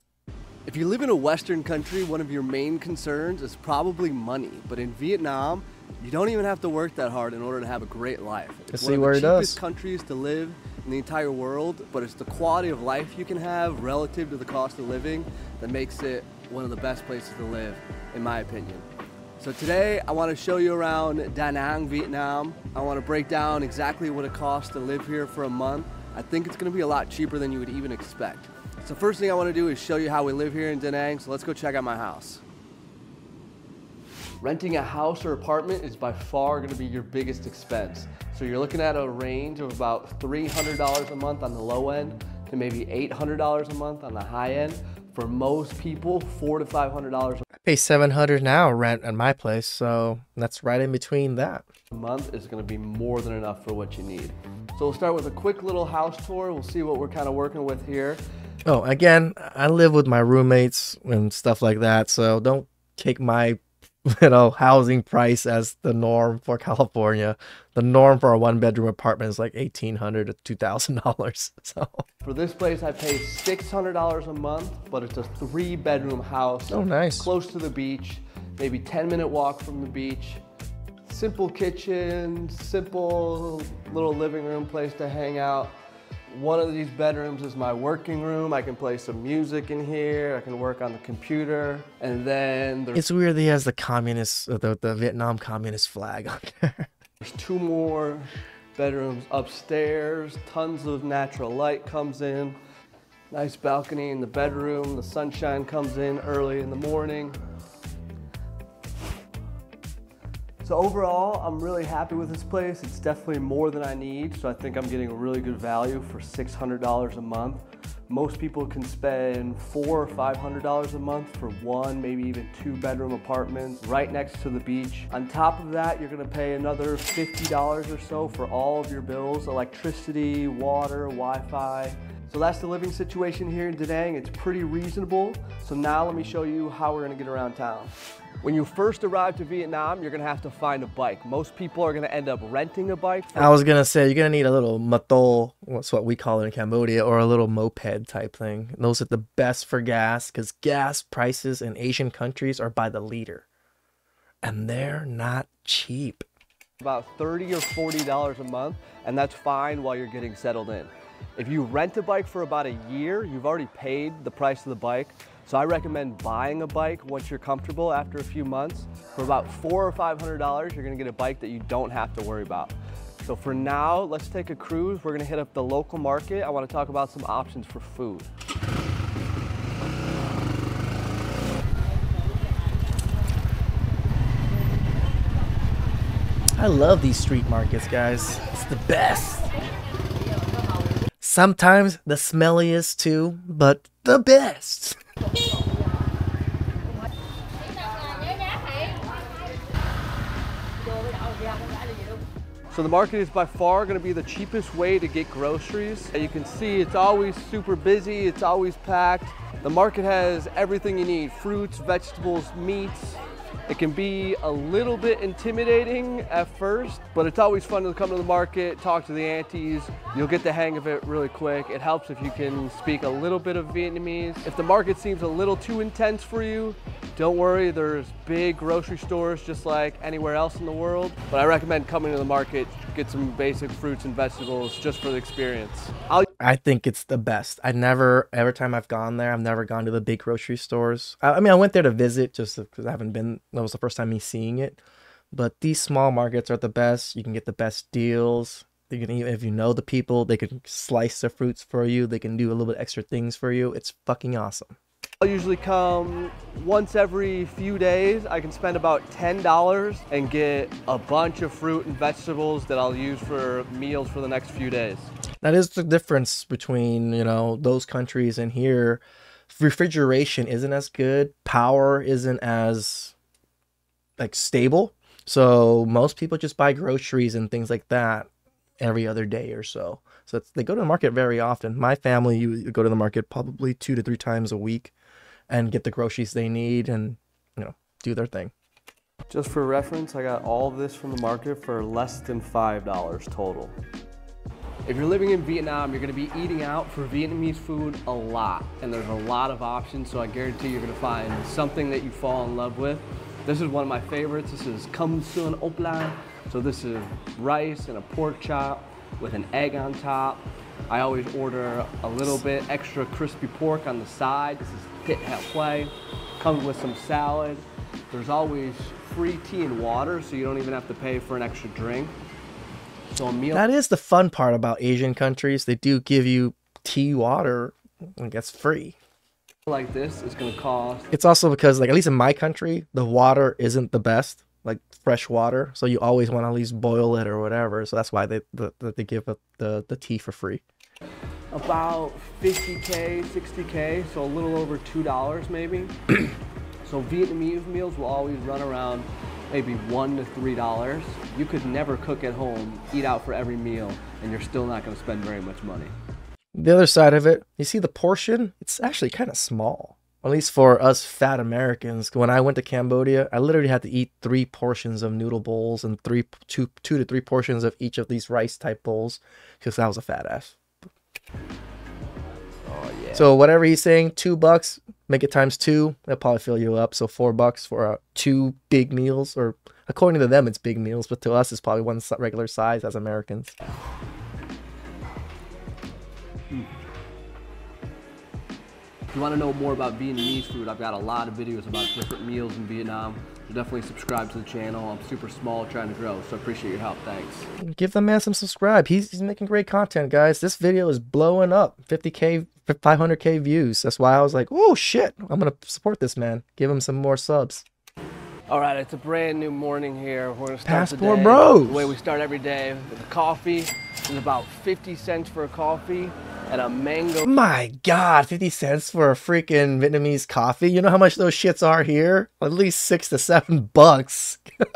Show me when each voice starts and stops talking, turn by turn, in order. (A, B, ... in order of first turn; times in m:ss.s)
0:00.7-0:18.8 A
0:08.7-0:09.6 B
0:19.4-0:32.4 A
0:34.4-0:47.5 A
0:47.6-0:51.6 B
0:51.9-0:58.2 A
0:58.6-1:12.0 B
1:12.2-1:20.4 A
1:16.7-1:17.3 B
1:21.1-1:25.8 A
1:26.3-1:33.0 A
1:32.9-1:36.9 B
1:37.2-1:42.6 A
1:43.3-1:47.4 A
1:50.6-2:23.5 A
2:23.4-2:33.5 B
2:34.4-2:36.2 B
2:36.8-2:52.7 A
2:53.2-2:58.3 A
3:06.6-3:09.5 B
3:11.2-3:15.0 B
3:22.7-3:56.3 A
3:56.4-4:04.8 B
4:05.3-4:14.8 B
4:15.2-4:25.1 A
4:25.4-4:33.1 B
4:34.2-4:38.3 B
4:38.8-4:44.9 B
4:45.5-4:48.5 B
4:49.3-4:53.8 A
4:54.8-5:22.1 A
5:23.1-5:23.6 A
5:23.5-5:29.0 B
5:29.7-5:31.1 A
5:31.1-5:40.6 B
5:41.5-5:46.2 A
5:46.8-5:55.9 A
5:56.5-6:10.6 B
6:12.6-6:13.3 A
6:13.1-6:23.5 B
6:29.1-6:37.5 A
6:37.6-6:47.6 B
6:48.5-6:57.3 A
6:50.6-6:51.9 B
6:57.2-7:04.5 B